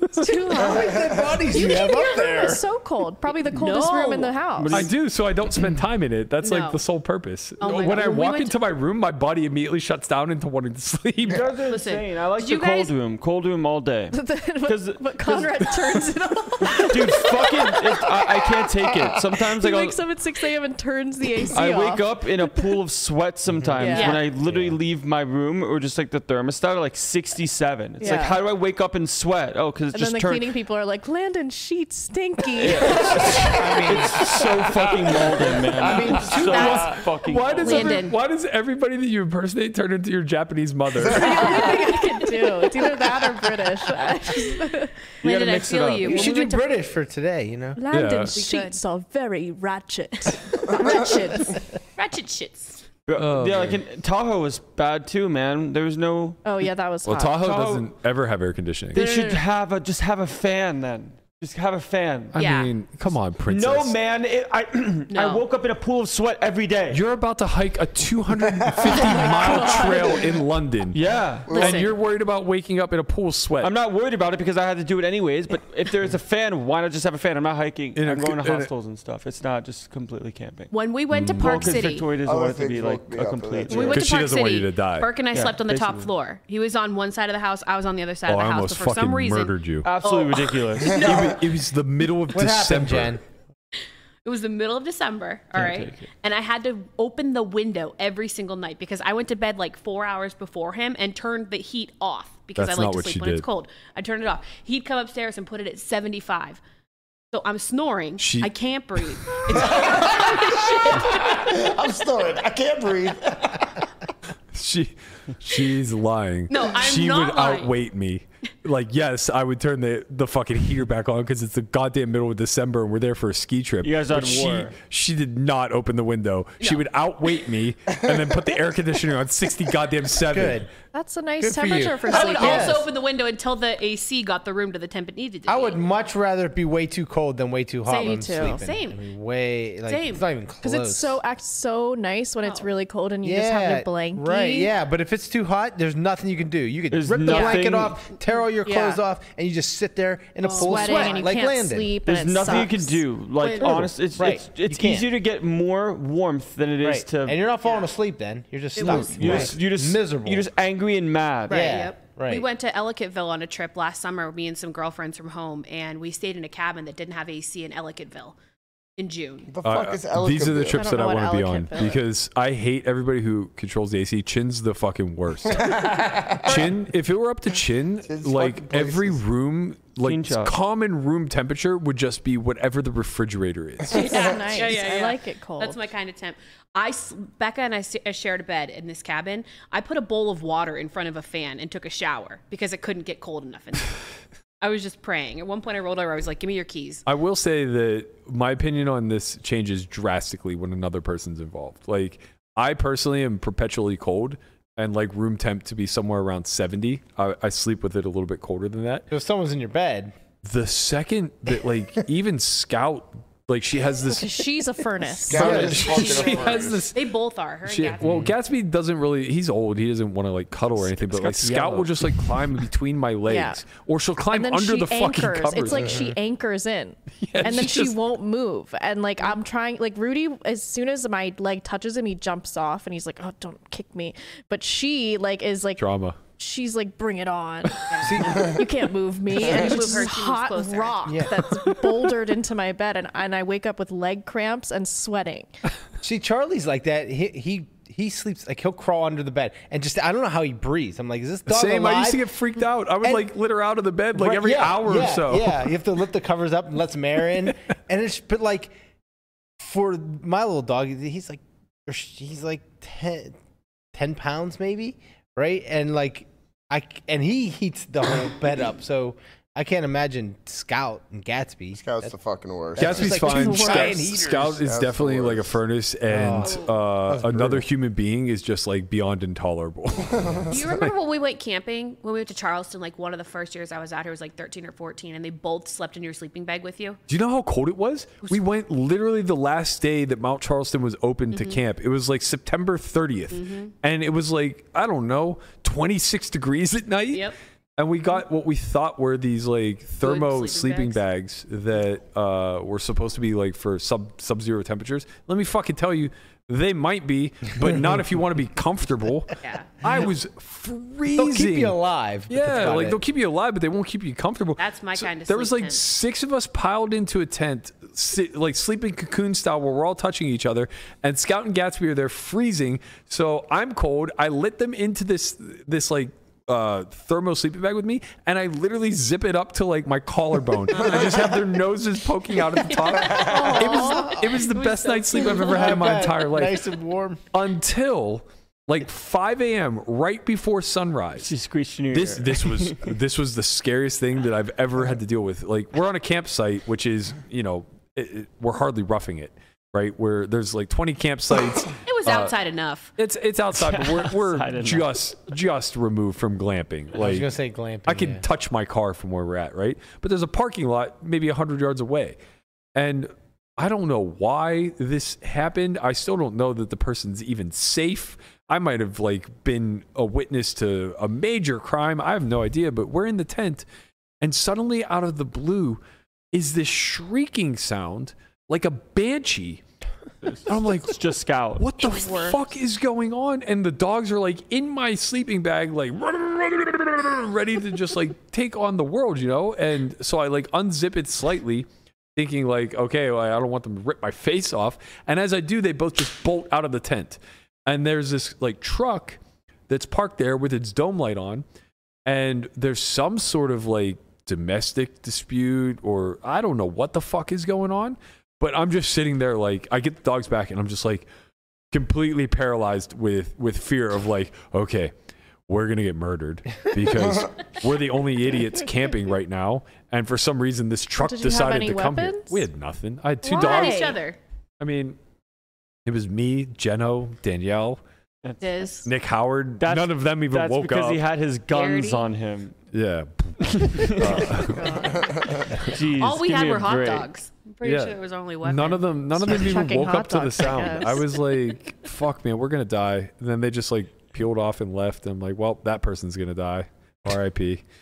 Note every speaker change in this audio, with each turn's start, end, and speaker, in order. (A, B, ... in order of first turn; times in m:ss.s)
0:00.2-0:04.8 A
0:00.5-0:02.6 B
0:00.6-0:01.4 C
0:03.5-0:04.3 D
0:04.6-0:04.9 E
0:04.7-0:11.5 F
0:06.4-0:06.8 D
0:07.6-0:08.6 D
0:11.2-0:15.5 E
0:11.6-0:12.9 D
0:14.1-0:18.4 A
0:16.8-0:20.0 E
0:19.6-0:22.7 A
0:21.5-0:30.5 E
0:23.8-0:24.2 A
0:23.9-0:24.3 D
0:28.0-0:28.4 A
0:29.9-0:33.5 A
0:32.6-0:38.0 E
0:33.5-0:34.2 B
0:34.8-0:36.0 C
0:36.2-0:37.0 D
0:36.4-0:41.7 F
0:37.6-0:38.2 D
0:41.0-0:44.9 A
0:45.2-0:46.7 D
0:45.2-0:46.3 E
0:46.0-0:47.8 B
0:46.2-0:46.6 A
0:47.8-0:51.6 A
0:47.9-0:48.3 F
0:48.3-0:48.8 D
0:52.0-0:52.8 D
0:53.1-0:56.4 E
0:53.2-0:53.8 F
0:56.4-0:57.4 A
0:57.0-0:59.0 F
0:57.4-0:57.9 E
0:58.9-1:02.3 E
0:59.0-0:59.4 A
1:02.3-1:04.0 F
1:02.4-1:02.7 D
1:03.5-1:07.0 E
1:05.1-1:05.4 D
1:06.9-1:11.0 F
1:08.9-1:10.1 A
1:10.9-1:11.6 E
1:11.5-1:11.8 C
1:11.5-1:11.9 D
1:11.5-1:13.7 F
1:13.6-1:20.7 E
1:18.0-1:18.7 F
1:20.7-1:22.1 D
1:21.1-1:21.8 F
1:21.4-1:24.0 E
1:22.2-1:24.0 C
1:23.7-1:30.4 D
1:23.8-1:25.1 F
1:25.3-1:26.1 E
1:28.3-1:29.9 F
1:29.8-1:31.3 E
1:30.8-1:31.4 C
1:30.9-1:33.2 F
1:32.3-1:33.2 B
1:34.2-1:46.6 D
1:35.5-1:36.1 E
1:42.6-1:43.4 F
1:47.3-1:51.5 D
1:48.2-1:48.5 F
1:49.5-1:53.8 C
1:54.5-2:10.7 F
1:56.5-1:57.8 D
2:03.8-2:04.7 E
2:10.2-2:10.7 B
2:10.9-2:12.8 A
2:11.4-2:12.9 B
2:12.0-2:15.8 D
2:15.5-2:21.2 B
2:17.8-2:19.0 D
2:18.0-2:18.6 A
2:19.8-2:20.2 D
2:20.6-2:24.7 A
2:22.4-2:22.7 D
2:23.2-2:32.0 B
2:26.9-2:28.0 E
2:27.3-2:27.6 A
2:28.6-2:29.0 A
2:30.4-2:31.5 D
2:30.5-2:33.0 A
2:32.0-2:37.4 E
2:33.4-2:33.9 D
2:33.7-2:35.1 B
2:36.8-2:40.5 B
2:37.6-2:37.9 D
2:38.8-2:41.8 E
2:38.8-2:39.1 D
2:39.2-2:39.5 F
2:41.5-2:48.4 D
2:41.5-2:42.5 B
2:49.0-2:49.5 D
2:49.5-2:51.0 C
2:49.6-3:04.2 F
2:50.7-2:52.0 A
2:55.5-2:56.7 C
2:58.0-2:59.2 C
3:00.0-3:00.5 E
3:03.9-3:05.8 A
3:03.9-3:13.9 D
3:14.6-3:17.0 D
3:17.0-3:29.1 F
3:29.1-3:30.1 B
3:30.4-3:34.4 F
3:34.1-3:35.7 A
3:35.2-3:36.9 C
3:35.3-3:37.0 F
3:35.6-3:38.0 D
3:37.6-3:46.0 F
3:38.0-3:38.3 B
3:41.1-3:42.2 E
3:43.3-3:43.6 A
3:44.3-3:55.8 A
3:45.8-3:46.1 B
3:47.2-3:48.0 F
3:55.8-3:56.2 F
3:56.4-4:05.5 A
3:57.9-3:58.5 D
3:58.0-3:58.6 B
3:59.3-4:01.2 D
4:06.0-4:12.2 B
4:11.4-4:15.7 F
4:13.0-4:13.3 B
4:14.1-4:18.7 B
4:19.6-4:23.3 B
4:23.9-4:32.1 B
4:31.7-4:33.2 C
4:32.8-4:34.6 B
4:32.8-4:40.9 F
4:33.2-4:34.1 A
4:34.4-4:35.6 C
4:36.1-4:37.6 B
4:36.4-4:36.8 D
4:40.1-4:40.5 C
4:40.5-4:47.0 D
4:47.1-5:11.8 F
4:51.3-4:51.6 D
4:53.3-4:53.7 D
4:57.1-4:57.4 D
5:00.0-5:01.0 D
5:09.4-5:09.8 D
5:11.1-5:13.0 B
5:12.3-5:36.7 F
5:14.6-5:15.8 D
5:30.7-5:31.2 D
5:33.1-5:35.7 D
5:33.2-5:34.0 A
5:33.9-5:34.3 B
5:35.3-5:37.2 B
5:37.3-5:41.3 F
5:41.2-5:42.9 E
5:41.9-5:52.3 F
5:51.8-5:52.9 D
5:53.0-5:57.3 F
5:53.6-5:54.9 E
5:57.0-5:58.2 B
5:57.8-6:02.2 F
6:02.7-6:13.6 F
6:14.2-6:15.8 F
6:16.3-6:19.6 F
6:20.2-6:21.6 E
6:20.4-6:21.0 F
6:21.6-6:41.4 F
6:21.8-6:22.4 D
6:42.0-6:51.1 F
6:51.7-6:54.9 F
6:55.5-7:03.9 F
7:01.0-7:02.4 A
7:03.2-7:04.2 D
7:03.2-7:04.0 A
7:04.6-7:05.0 F
7:05.8-7:07.8 F
7:08.4-7:08.9 D
7:08.8-7:11.0 F
7:09.6-7:12.5 E
7:11.5-7:12.1 D
7:12.7-7:14.7 F
7:13.4-7:14.4 E
7:14.1-7:15.1 D
7:14.9-7:15.5 C
7:15.6-7:17.1 E
7:15.9-7:19.0 D
7:17.6-7:27.6 F
7:19.2-7:21.1 A